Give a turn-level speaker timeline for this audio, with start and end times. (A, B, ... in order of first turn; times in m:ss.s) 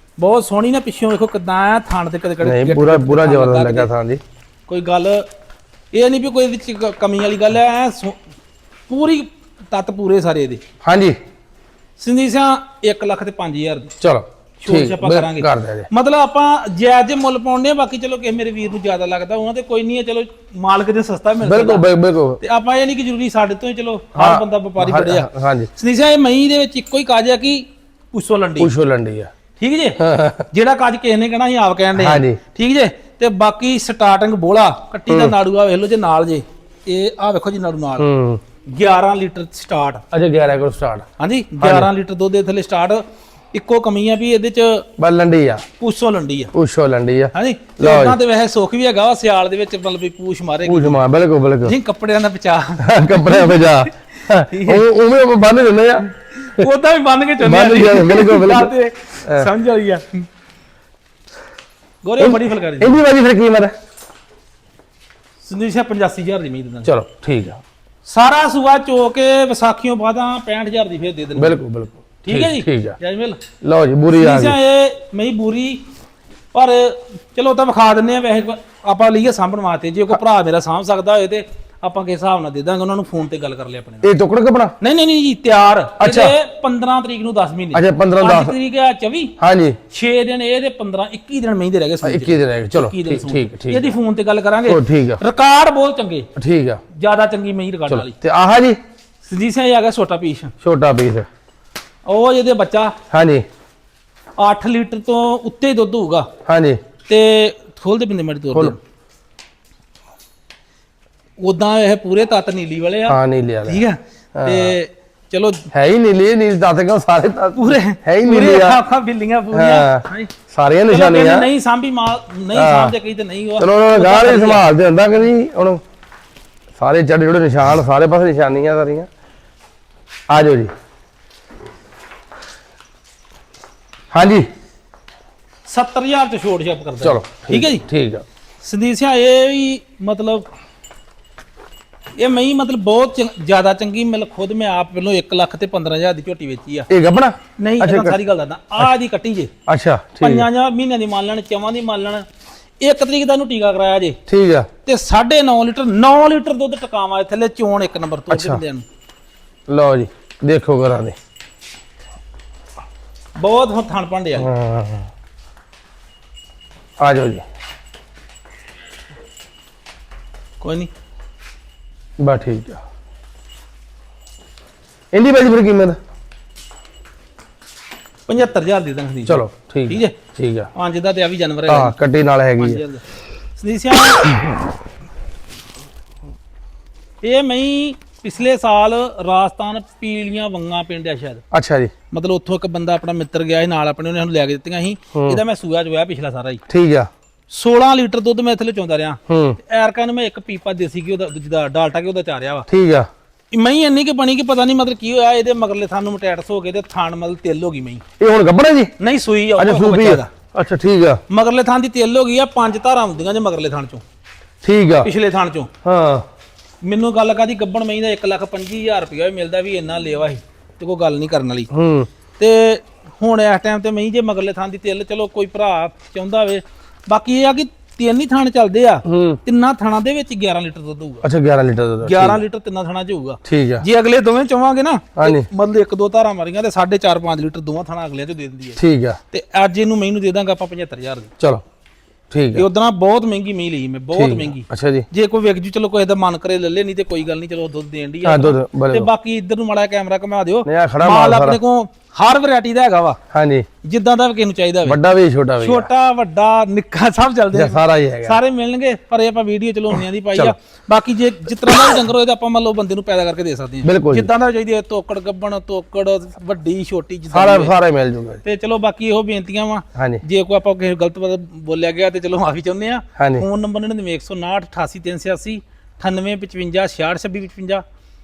0:00.2-0:03.9 A
0:02.4-0:04.2 B
0:04.7-0:05.2 A
0:05.9-0:08.2 A
0:08.9-0:10.6 A
0:10.8-0:11.2 B
0:12.0-0:13.9 A
0:14.0-0:15.9 B
0:14.6-0:21.8 A
0:21.4-0:22.4 B
0:22.4-0:28.7 A
0:24.2-0:25.7 B
0:28.6-0:29.3 B
0:29.6-0:30.0 A
0:30.0-0:30.5 B
0:30.5-0:38.1 A
0:32.0-0:32.4 B
0:35.1-0:35.3 B
0:38.0-0:38.4 B
0:38.7-0:40.0 A
0:40.1-0:41.0 B
0:41.2-0:43.0 A
0:41.6-0:41.9 B
0:43.5-0:44.9 A
0:45.0-0:45.6 B
0:45.8-0:46.5 A
0:46.5-0:48.2 B
0:47.3-0:51.0 A
0:50.7-0:51.7 B
0:51.6-0:53.9 A
0:52.8-0:56.7 B
0:54.5-0:54.8 A
0:56.4-1:00.3 A
0:57.4-0:58.7 B
1:02.0-1:03.0 A
1:02.2-1:03.7 B
1:05.4-1:06.9 A
1:06.8-1:07.6 B
1:08.1-1:11.6 A
1:11.4-1:13.0 B
1:12.2-1:13.4 A
1:13.6-1:14.6 B
1:14.1-1:15.8 A
1:16.5-1:24.1 A
1:24.0-1:24.7 B
1:24.8-1:29.3 A
1:26.0-1:26.4 B
1:27.7-1:28.6 B
1:29.4-1:29.8 B
1:29.9-1:36.3 A
1:32.0-1:33.9 B
1:34.6-1:35.2 B
1:36.4-1:36.8 B
1:36.9-1:38.2 A
1:37.9-1:38.8 B
1:39.2-1:40.5 A
1:40.6-1:41.3 B
1:42.1-1:43.0 A
1:43.1-1:43.4 B
1:44.4-1:46.3 A
1:46.5-1:46.8 B
1:47.1-1:48.8 A
1:51.4-1:55.7 A
1:53.1-1:53.9 B
1:54.4-1:54.8 B
1:55.7-1:58.8 B
1:57.6-2:00.3 A
1:59.5-2:01.5 B
2:00.9-2:04.6 A
2:02.5-2:02.9 B
2:03.6-2:05.8 B
2:06.8-2:09.1 B
2:10.3-2:10.7 B
2:14.1-2:14.5 B
2:15.7-2:17.8 A
2:17.0-2:18.2 B
2:18.6-2:20.5 A
2:22.2-2:26.9 A
2:26.9-2:28.2 B
2:27.6-2:29.5 A
2:29.7-2:30.5 B
2:30.2-2:32.2 A
2:32.8-2:34.2 A
2:34.3-2:34.7 B
2:34.8-2:38.8 A
2:38.3-2:38.6 B
2:39.7-2:41.2 B
2:43.4-2:44.5 A
2:44.4-2:45.1 B
2:47.0-2:47.4 B
2:50.6-2:50.9 A
2:52.2-2:52.8 B
2:55.1-2:56.0 B
2:58.3-3:00.2 A
2:59.3-3:00.7 B
3:00.8-3:02.0 A
3:01.7-3:02.8 B
3:02.6-3:03.0 A
3:03.6-3:04.3 A
3:07.2-3:11.4 A
3:11.5-3:11.9 B
3:12.1-3:16.6 A
3:15.2-3:15.4 B
3:16.7-3:17.1 B
3:17.5-3:22.7 A
3:19.3-3:19.6 B
3:22.7-3:23.1 B
3:23.5-3:28.0 A
3:28.2-3:28.9 B
3:29.0-3:30.3 A
3:29.6-3:31.2 B
3:31.3-3:34.0 A
3:34.6-3:35.1 B
3:35.0-3:35.7 A
3:35.8-3:36.3 B
3:36.8-3:41.7 A
3:41.7-3:42.1 B
3:42.4-3:51.3 A
3:49.1-3:49.4 B
3:51.2-3:52.4 B
3:52.0-3:58.8 A
3:53.4-3:53.8 B
3:55.2-3:55.5 B
3:58.8-3:59.2 B
3:59.3-4:01.3 A
4:02.3-4:02.7 B
4:02.6-4:13.2 A
4:04.1-4:05.1 B
4:08.2-4:09.1 B
4:10.6-4:11.6 B
4:13.3-4:13.7 B
4:13.8-4:15.0 A
4:14.8-4:15.9 B
4:15.6-4:27.7 A
4:17.5-4:18.4 B
4:23.8-4:24.3 B
4:27.3-4:28.4 B
4:28.4-4:37.8 A
4:30.0-4:30.2 B
4:33.2-4:33.4 B